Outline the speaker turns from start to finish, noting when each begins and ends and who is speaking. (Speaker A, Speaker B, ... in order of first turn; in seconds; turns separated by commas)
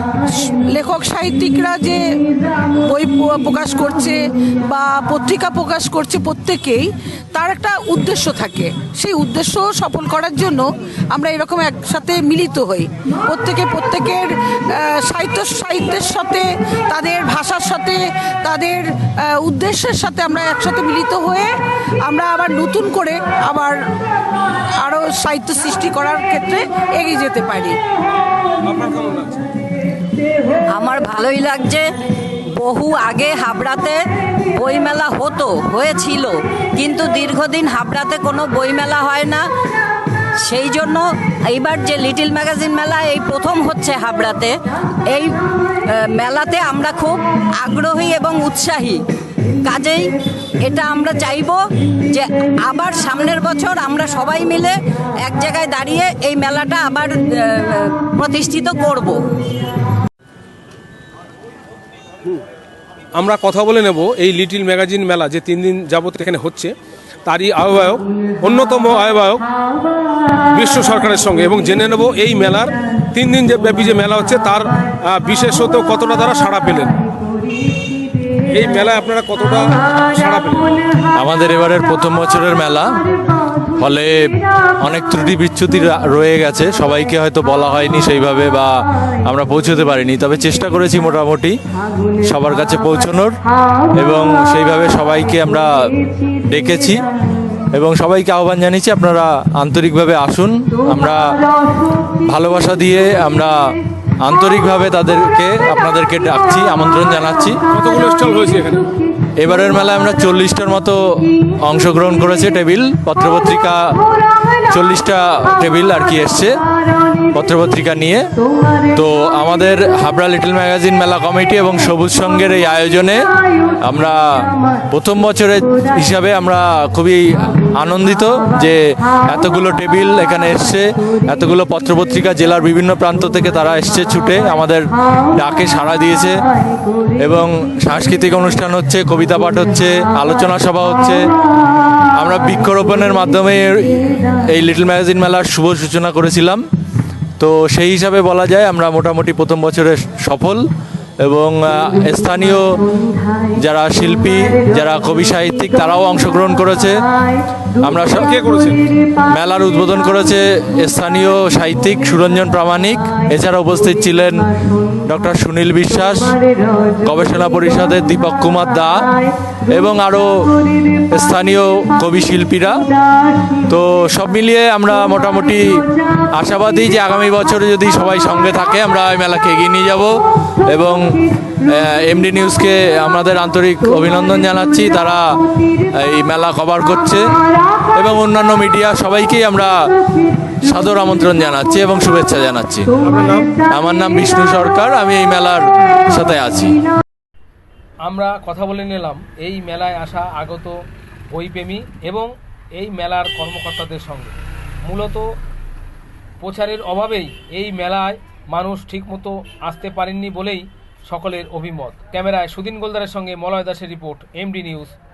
Speaker A: 0.2-21.5, Speaker A: 22.0-23.8, Speaker A: 24.8-27.8, Speaker B: 28.7-29.4, Speaker C: 30.7-31.8, Speaker C: 32.6-34.0, Speaker C: 34.5-39.4, Speaker C: 40.4-44.5, Speaker C: 45.1-45.4, Speaker C: 45.9-49.0, Speaker C: 49.6-50.1, Speaker C: 50.6-51.6, Speaker C: 52.1-59.2, Speaker B: 63.2-66.7, Speaker B: 67.2-69.4, Speaker B: 70.5-77.0, Speaker B: 78.4-80.8, Speaker D: 81.2-82.9, Speaker D: 83.8-88.7, Speaker D: 89.3-91.5, Speaker D: 92.2-93.4, Speaker D: 94.0-95.7, Speaker D: 96.5-97.0, Speaker D: 97.7-101.4, Speaker D: 102.3-103.5, Speaker D: 104.2-107.6, Speaker B: 107.7-108.8, Speaker D: 109.4-114.0, Speaker D: 114.7-116.5, Speaker D: 117.3-118.2, Speaker D: 118.9-123.3, Speaker D: 123.8-136.3, Speaker D: 137.2-141.2, Speaker D: 142.2-146.6, Speaker D: 147.4-150.6, Speaker D: 151.2-152.6, Speaker D: 153.6-156.9, Speaker D: 157.8-158.3, Speaker B: 158.1-158.8, Speaker D: 159.2-164.5, Speaker D: 165.1-166.4, Speaker D: 167.0-169.1, Speaker D: 169.7-170.5, Speaker D: 171.1-172.8, Speaker D: 173.7-175.8, Speaker D: 176.3-180.2, Speaker D: 180.7-185.2, Speaker D: 185.9-187.2, Speaker D: 187.9-189.8, Speaker D: 190.5-192.9, Speaker B: 193.0-193.6, Speaker D: 193.7-196.8, Speaker B: 198.0-200.8, Speaker B: 201.3-205.3, Speaker B: 206.4-214.9